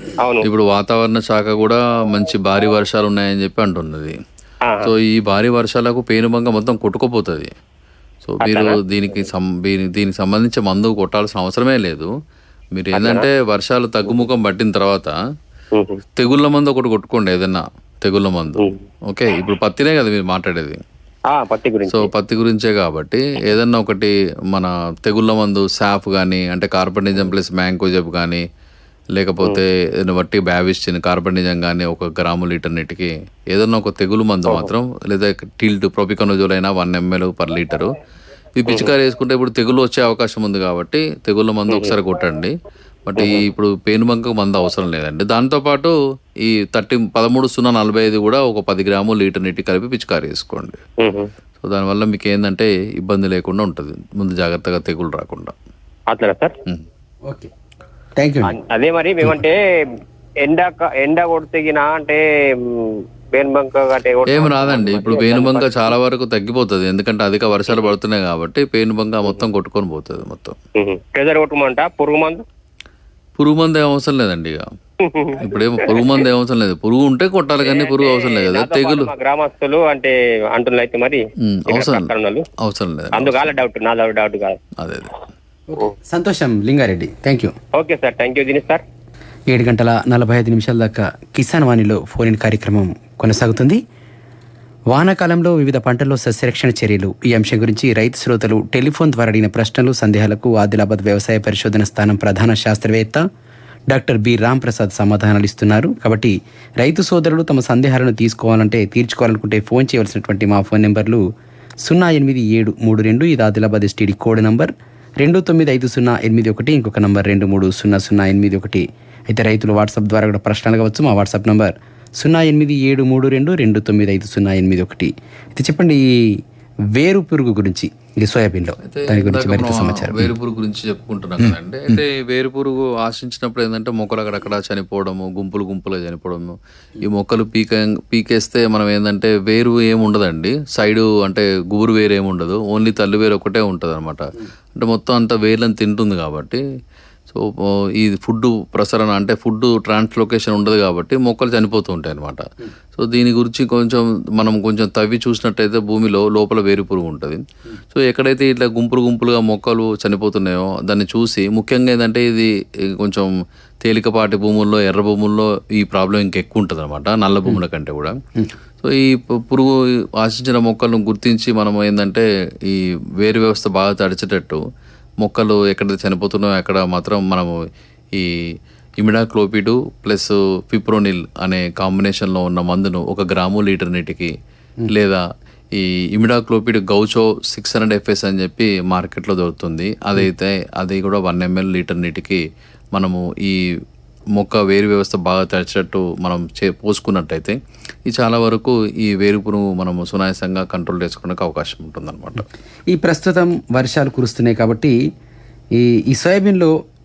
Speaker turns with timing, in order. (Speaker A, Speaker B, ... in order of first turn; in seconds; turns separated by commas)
Speaker A: 0.2-0.5, Speaker B: 0.4-4.1, Speaker A: 4.6-4.9, Speaker B: 4.8-7.5, Speaker B: 8.2-12.1, Speaker A: 8.4-8.8, Speaker B: 12.7-15.1, Speaker A: 12.9-13.3, Speaker A: 15.7-16.0, Speaker B: 16.2-20.8, Speaker A: 21.3-22.1, Speaker B: 21.9-28.4, Speaker B: 29.1-38.0, Speaker B: 38.5-42.5, Speaker B: 43.1-50.8, Speaker A: 43.1-43.5, Speaker A: 51.0-51.3, Speaker B: 51.6-55.5, Speaker A: 56.1-56.5, Speaker C: 58.2-58.5, Speaker A: 58.5-59.6, Speaker A: 60.4-65.8, Speaker B: 64.2-70.5, Speaker A: 70.8-72.4, Speaker B: 73.4-74.6, Speaker A: 75.0-76.2, Speaker B: 75.4-79.1, Speaker A: 77.6-82.5, Speaker B: 81.4-82.1, Speaker B: 82.6-83.5, Speaker A: 83.1-84.6, Speaker B: 84.8-85.1, Speaker C: 85.7-87.5, Speaker A: 87.8-88.8, Speaker C: 89.5-93.8, Speaker C: 94.9-103.2, Speaker C: 103.9-111.2, Speaker C: 111.8-126.4, Speaker C: 126.9-130.3, Speaker B: 128.8-144.2, Speaker C: 131.4-132.0, Speaker B: 144.8-146.6, Speaker B: 147.3-168.2, Speaker B: 168.8-174.6, Speaker B: 175.2-177.5, Speaker B: 178.1-178.4, Speaker B: 179.0-184.3, Speaker B: 184.9-185.2, Speaker B: 185.7-192.4, Speaker B: 192.9-193.6, Speaker B: 194.3-202.4, Speaker C: 202.9-204.9, Speaker C: 205.8-206.7